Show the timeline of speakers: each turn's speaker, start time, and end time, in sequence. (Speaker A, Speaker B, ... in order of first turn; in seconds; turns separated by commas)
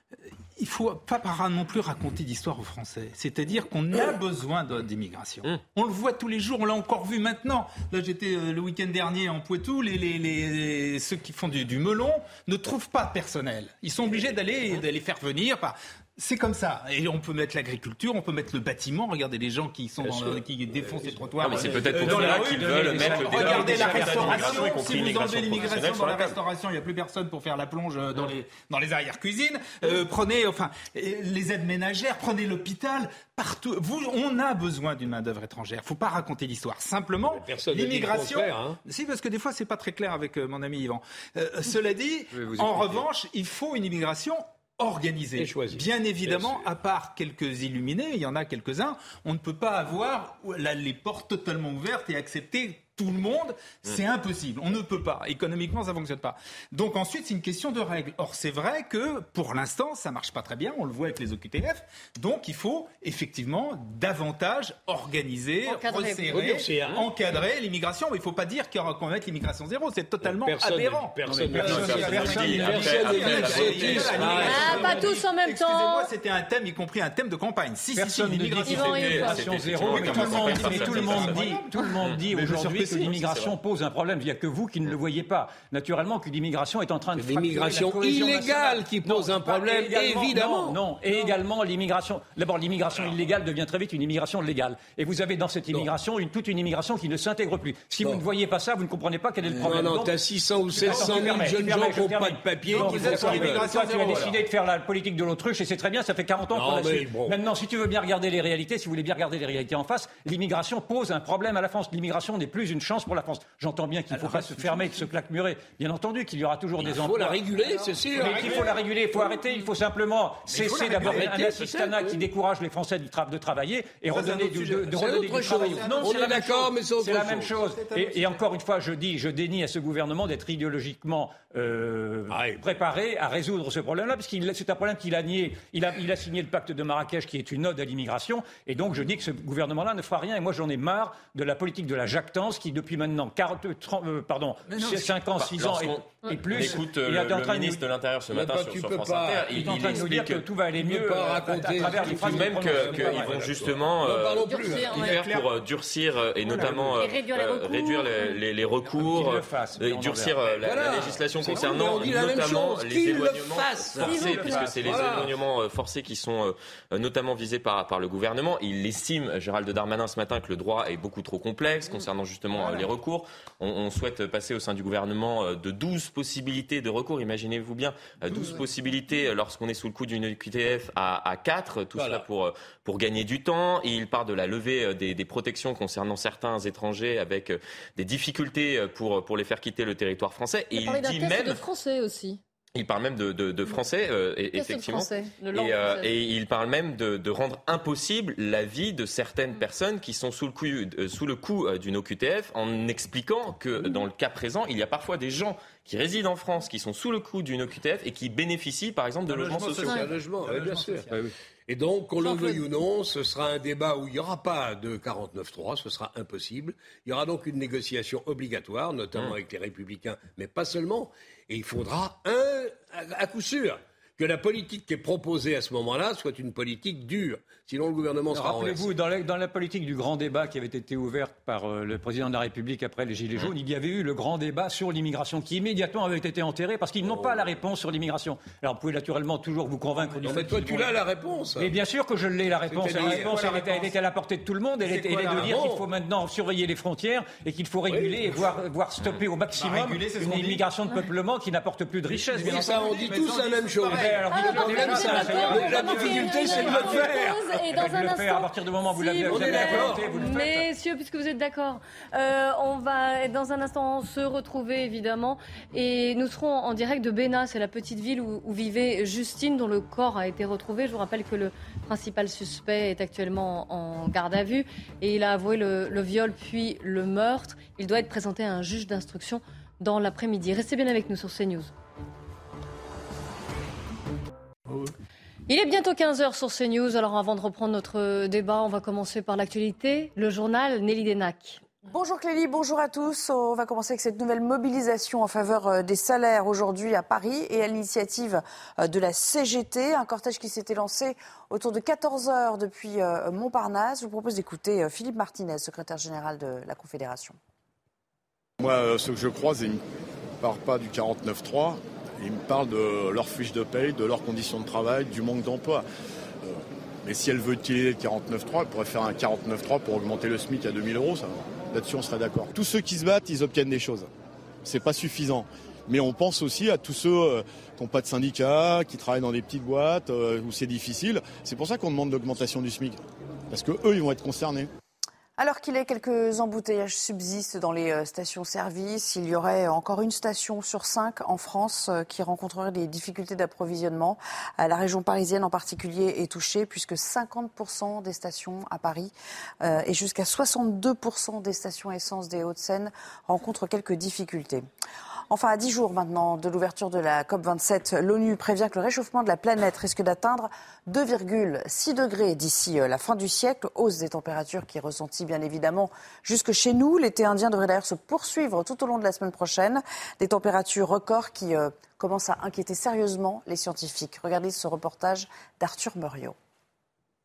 Speaker A: 0.6-81.7, Speaker B: 20.0-22.2, Speaker C: 21.4-26.4, Speaker D: 21.9-25.1, Speaker B: 37.2-38.8, Speaker D: 42.7-43.0, Speaker B: 45.4-46.7, Speaker E: 65.7-66.3, Speaker B: 66.3-67.0, Speaker B: 70.2-75.1, Speaker D: 71.3-72.7, Speaker C: 71.6-74.7, Speaker E: 74.4-76.1, Speaker D: 77.9-100.1, Speaker C: 78.7-83.5, Speaker E: 78.7-79.4, Speaker B: 87.2-90.8, Speaker B: 99.4-104.2, Speaker D: 100.8-117.4, Speaker A: 100.8-101.5, Speaker A: 102.7-104.4, Speaker B: 106.5-107.4, Speaker A: 114.1-115.0, Speaker B: 116.8-118.7, Speaker A: 117.8-118.7, Speaker D: 118.2-147.8, Speaker A: 120.5-121.4, Speaker B: 120.6-122.2, Speaker A: 124.1-126.4, Speaker B: 124.3-127.7, Speaker A: 127.6-128.4, Speaker B: 132.3-132.7, Speaker A: 144.7-145.2, Speaker C: 145.4-150.4, Speaker B: 148.3-150.0, Speaker D: 149.5-153.4, Speaker B: 150.8-155.1, Speaker C: 151.7-191.6, Speaker E: 154.4-155.2, Speaker A: 154.9-155.5, Speaker A: 156.4-157.0, Speaker E: 157.0-158.4, Speaker D: 158.8-160.6, Speaker B: 160.6-165.3, Speaker D: 164.0-165.1, Speaker B: 181.9-182.2, Speaker E: 190.7-192.4, Speaker C: 192.8-210.1, Speaker E: 194.5-196.2, Speaker A: 209.2-211.3, Speaker B: 209.5-211.1, Speaker B: 211.7-228.9, Speaker D: 228.3-240.9, Speaker B: 237.0-237.6, Speaker B: 240.2-241.7, Speaker D: 241.6-252.9, Speaker B: 242.7-243.4, Speaker A: 242.9-243.9, Speaker A: 244.8-245.6, Speaker B: 245.3-245.8, Speaker B: 247.9-248.3, Speaker A: 249.6-250.6, Speaker A: 252.3-256.9, Speaker B: 252.4-257.6, Speaker D: 253.9-257.1, Speaker E: 254.3-281.7, Speaker D: 257.7-260.6, Speaker B: 259.2-260.3, Speaker E: 285.5-291.6, Speaker F: 291.9-307.4, Speaker G: 308.6-309.8, Speaker G: 310.4-315.8, Speaker G: 316.4-324.1, Speaker G: 324.6-334.7, Speaker F: 335.4-354.6, Speaker F: 355.3-376.3